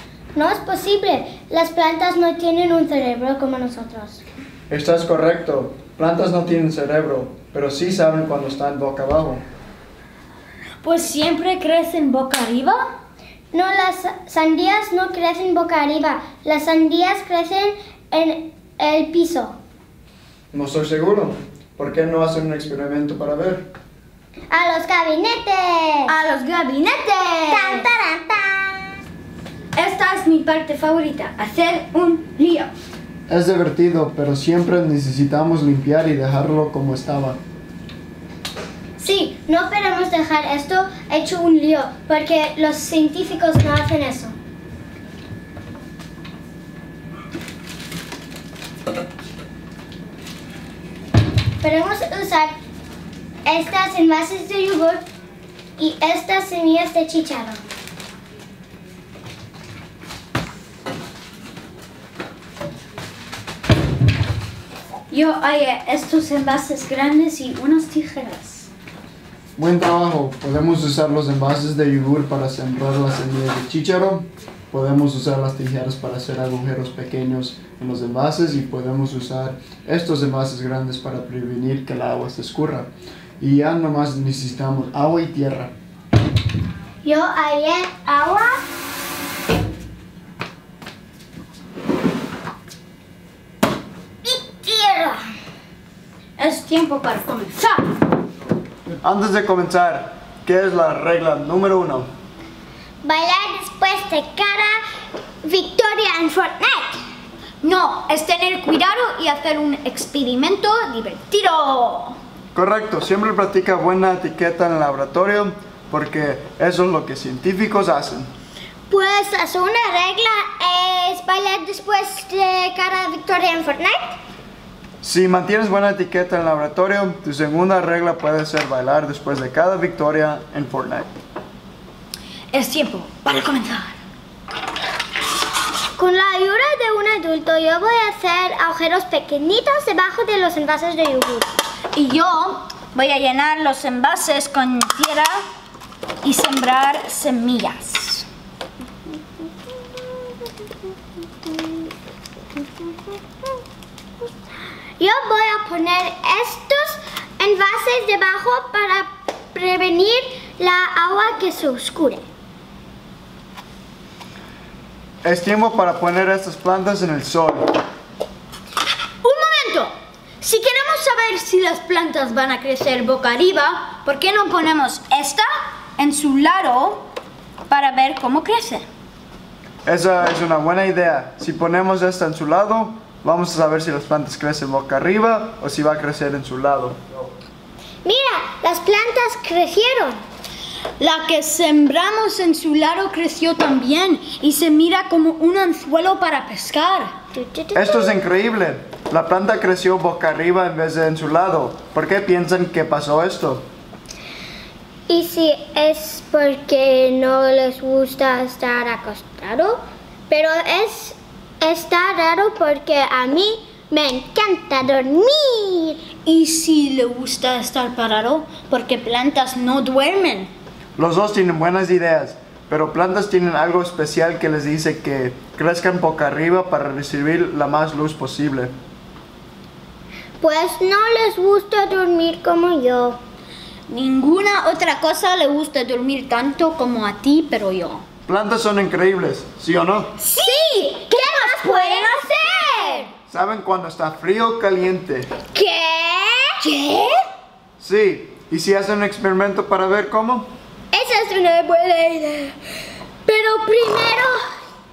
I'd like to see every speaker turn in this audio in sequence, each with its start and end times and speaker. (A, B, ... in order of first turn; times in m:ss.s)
0:00.3-0:04.2 A
0:04.7-0:09.4 B
0:10.8-0:12.8 C
0:13.5-0:19.6 A
0:20.5-0:23.7 B
0:24.5-0:26.1 A
0:26.1-0:27.8 C
0:27.5-0:28.9 A
0:29.7-0:32.7 C
0:33.3-0:37.4 B
0:39.0-0:44.3 A
0:51.6-0:52.5 A
0:53.4-0:55.0 A
0:55.8-0:57.6 A
1:05.1-1:08.7 C
1:09.6-1:22.9 B
1:23.4-1:25.7 B
1:27.0-1:28.6 A
1:34.2-1:35.3 A
1:36.4-1:37.9 C
1:39.0-1:42.1 B
1:43.0-1:44.8 A
1:45.4-1:47.0 A
1:47.6-1:52.2 C
1:52.5-1:58.3 B
1:58.9-2:04.2 A
2:05.0-2:11.1 B
2:12.5-2:14.0 C
2:16.0-2:21.5 A
2:21.9-2:25.4 C
2:26.2-2:28.2 C
2:35.0-2:42.2 A
2:45.2-2:47.8 B
2:49.2-2:57.1 C
2:57.7-2:58.8 C
2:59.8-3:07.0 B
3:08.0-3:10.2 A
3:11.0-3:17.1 C
3:17.3-3:18.2 A
3:17.7-3:23.6 B
3:25.1-3:36.0 A
3:36.2-3:40.5 C
3:41.0-3:48.7 B
3:50.4-3:53.2 A
3:53.9-3:58.0 C
3:58.3-4:00.1 B
4:00.2-4:03.1 C
4:00.4-4:03.1 A
4:03.3-4:05.3 B
4:05.5-4:06.6 A
4:06.6-4:07.2 C
4:07.8-4:10.5 B
4:10.9-4:12.5 A
4:13.2-4:14.5 A